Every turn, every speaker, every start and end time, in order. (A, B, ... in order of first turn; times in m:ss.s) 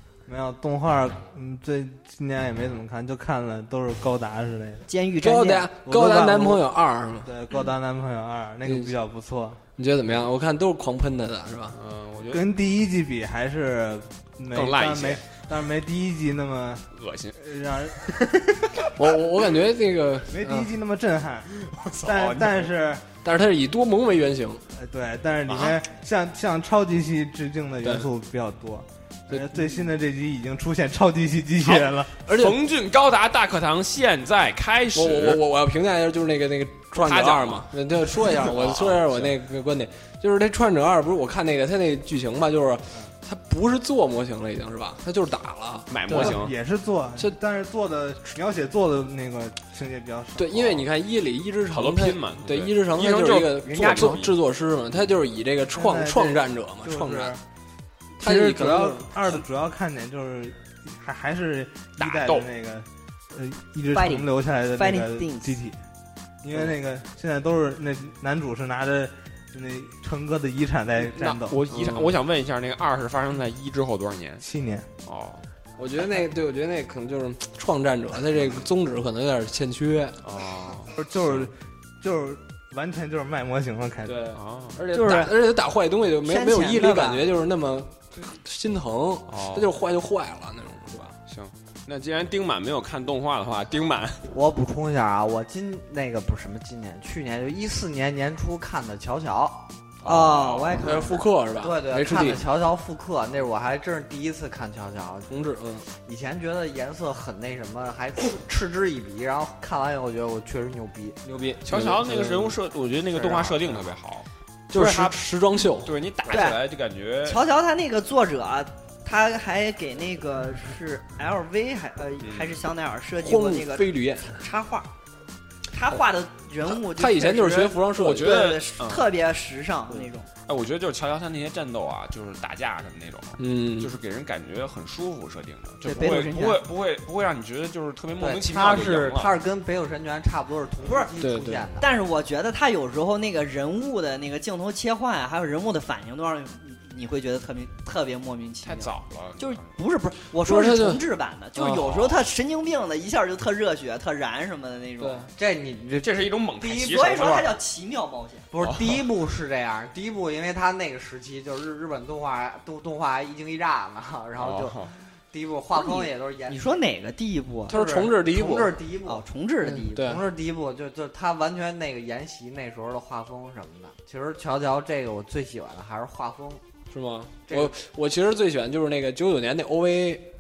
0:00.3-0:04.9 A
0:04.9-0:05.7 B
0:05.2-0:07.3 C
0:05.9-0:06.7 A
0:07.2-0:09.6 A
0:08.6-0:08.9 C
0:09.8-0:11.8 C
0:11.7-0:12.5 D
0:12.3-0:16.8 A
0:14.5-0:15.3 D
0:16.9-0:17.4 D
0:17.4-0:18.1 A
0:18.0-0:18.9 D
0:18.9-0:20.7 C
0:20.3-0:23.0 A
0:21.5-0:22.7 D
0:23.2-0:24.6 C
0:24.7-0:32.2 A
0:25.5-0:25.8 D
0:29.3-0:29.8 C
0:31.6-0:35.4 D
0:32.2-0:32.6 C
0:34.9-0:46.4 C
0:36.9-0:39.4 D
0:45.9-0:46.5 D
0:46.1-0:50.8 A
0:50.4-0:57.4 C
0:51.7-0:54.4 D
0:53.6-0:54.2 B
0:55.7-0:57.4 A
0:58.2-0:59.4 C
0:58.2-1:05.8 A
1:02.0-1:02.5 D
1:03.9-1:05.6 B
1:06.4-1:11.6 A
1:11.1-1:14.4 D
1:11.7-1:12.2 C
1:14.4-1:14.9 A
1:15.0-1:15.4 D
1:15.8-1:20.2 C
1:20.2-1:21.5 D
1:20.9-1:24.2 A
1:24.0-1:31.2 C
1:24.3-1:24.8 D
1:24.9-1:25.4 B
1:26.2-1:27.3 B
1:29.3-1:29.7 D
1:31.3-1:34.3 D
1:34.3-1:39.7 E
1:40.0-1:41.0 D
1:40.0-1:41.2 B
1:40.7-1:42.4 C
1:41.6-1:45.3 E
1:45.3-1:45.8 C
1:45.9-1:51.2 E
1:51.2-1:52.6 C
1:51.6-1:55.2 D
1:53.2-1:53.8 E
1:54.7-1:55.9 C
1:55.8-1:57.4 D
1:56.3-1:56.6 B
1:57.2-2:04.9 B
2:02.2-2:02.5 D
2:03.2-2:04.4 C
2:05.7-2:10.3 B
2:06.7-2:08.5 C
2:07.9-2:09.1 D
2:10.5-2:19.3 D
2:13.4-2:13.9 C
2:15.8-2:16.7 B
2:18.2-2:21.9 E
2:20.9-2:21.1 B
2:21.2-2:21.6 C
2:21.8-2:35.2 B
2:28.6-2:29.7 D
2:30.4-2:31.0 C
2:31.6-2:31.8 C
2:31.8-2:32.2 D
2:35.0-2:35.3 C
2:35.4-2:37.1 E
2:36.0-2:37.6 D
2:36.6-2:38.4 B
2:38.5-2:46.6 E
2:38.6-2:39.0 D
2:44.4-2:44.9 D
2:45.7-2:47.7 B
2:47.7-2:48.8 C
2:47.7-2:49.2 E
2:49.0-2:50.1 B
2:49.6-2:50.2 C
2:49.9-2:56.6 E
2:56.9-3:00.3 C
2:57.5-2:57.8 E